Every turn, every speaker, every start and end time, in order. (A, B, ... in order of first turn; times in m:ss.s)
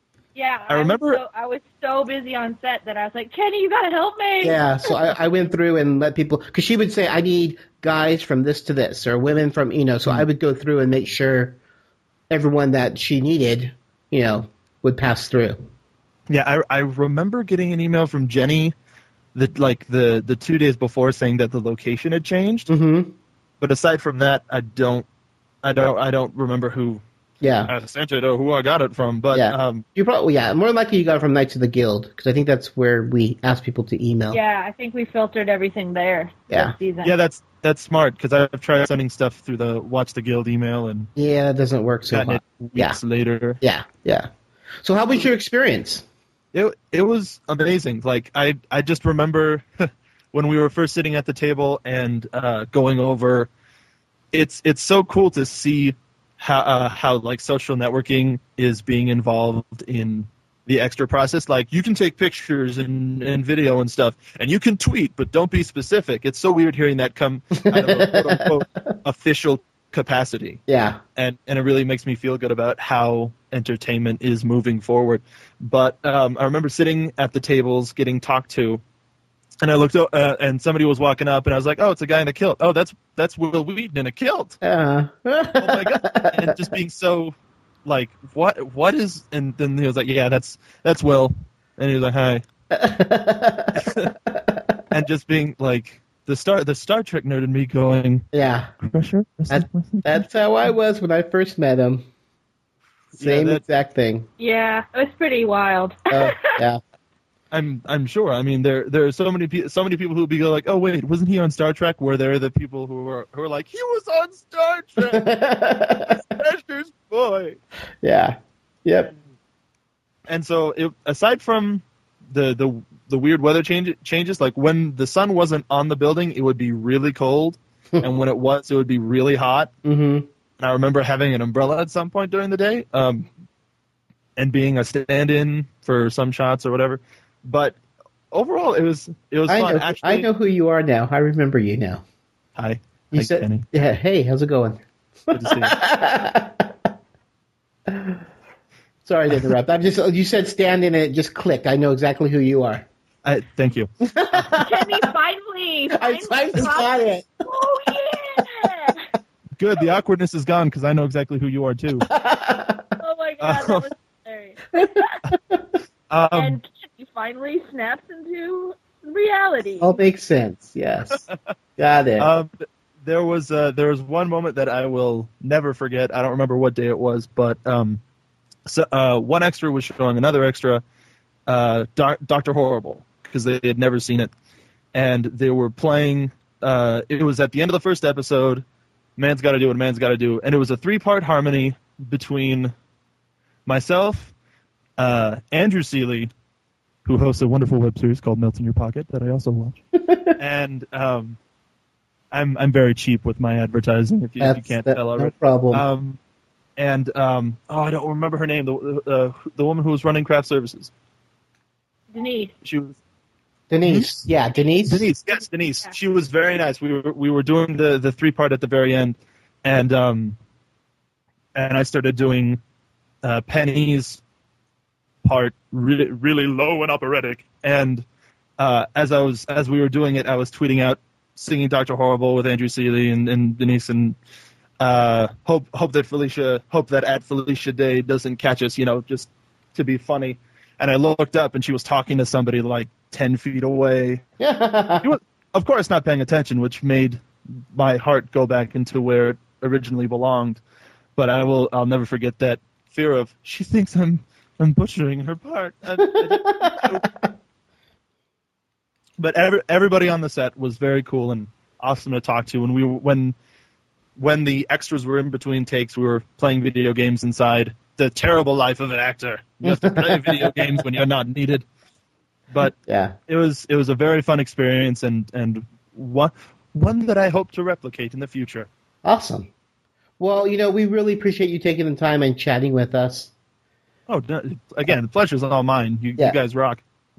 0:00.4-0:04.6 A
0:00.7-0:01.2 B
0:04.4-0:11.6 C
0:12.3-0:15.6 C
0:16.3-0:18.7 B
0:19.4-0:22.7 B
0:22.7-0:23.1 C
0:23.6-0:25.1 B
0:25.6-0:27.0 B
0:27.4-0:27.7 C
0:27.7-0:29.8 B
0:29.3-0:34.4 C
0:34.3-0:37.1 A
0:36.5-0:36.8 C
0:37.0-0:41.1 B
0:41.2-0:43.0 C
0:42.1-0:43.6 B
0:43.6-0:44.3 C
0:44.8-0:46.0 C
0:46.5-0:49.7 B
0:50.3-0:53.5 B
0:54.3-1:10.6 B
1:07.6-1:08.5 C
1:10.7-1:11.0 C
1:11.2-1:18.8 B
1:19.6-1:24.6 B
1:24.6-1:26.6 C
1:25.6-1:27.3 B
1:27.9-1:32.4 B
1:32.7-1:34.7 C
1:33.8-1:34.1 B
1:34.9-1:38.2 B
1:38.3-1:38.7 C
1:38.8-1:40.2 B
1:39.5-1:42.1 C
1:43.2-1:43.6 B
1:43.2-1:44.3 C
1:44.4-1:46.3 A
1:46.1-1:46.8 C
1:47.5-1:55.3 B
1:55.1-1:56.2 C
1:56.2-1:57.6 B
1:58.0-1:59.1 C
2:00.3-2:09.7 B
2:09.8-2:10.3 C
2:10.6-2:13.3 B
2:14.4-2:17.8 B
2:18.3-2:20.3 B
2:19.5-2:22.0 C
2:22.6-2:23.6 B
2:23.1-2:26.7 C
2:25.3-2:25.8 B
2:27.9-2:28.2 C
2:29.1-2:32.9 C
2:33.2-2:33.9 B
2:34.1-2:35.1 C
2:34.6-2:39.0 A
2:35.9-2:37.3 C
2:39.6-2:42.1 B
2:42.0-2:42.9 C
2:43.0-2:45.0 A
2:43.4-2:43.8 B
2:44.8-2:45.6 C
2:46.1-2:46.6 B
2:46.3-2:50.0 A
2:49.8-2:51.2 C
2:51.8-2:52.3 C
2:52.2-2:58.0 B
2:58.7-3:00.8 B
3:01.5-3:04.3 B
3:04.9-3:08.6 B
3:09.2-3:12.7 B
3:13.7-3:14.3 B
3:15.0-3:16.3 B
3:17.0-3:19.8 B
3:20.0-3:20.3 C
3:20.4-3:21.4 B
3:22.3-3:26.2 B
3:24.4-3:25.8 C
3:26.8-3:30.9 B
3:32.1-3:32.5 A
3:32.6-3:33.0 B
3:33.7-3:35.0 C
3:33.8-3:34.2 B
3:34.9-3:40.4 B
3:41.6-3:42.6 B
3:43.2-3:44.2 B
3:45.2-3:48.0 B
3:48.6-3:54.2 B
3:54.8-4:04.2 B
4:04.4-4:05.1 C
4:05.0-4:10.6 B
4:11.2-4:17.1 B
4:16.2-4:17.3 C
4:19.2-4:23.4 B
4:24.2-4:31.6 B
4:29.6-4:30.8 C
4:32.5-4:32.8 B
4:32.9-4:33.1 C
4:33.3-4:38.7 B
4:39.0-4:39.5 C
4:40.2-4:43.3 C
4:44.1-4:46.8 B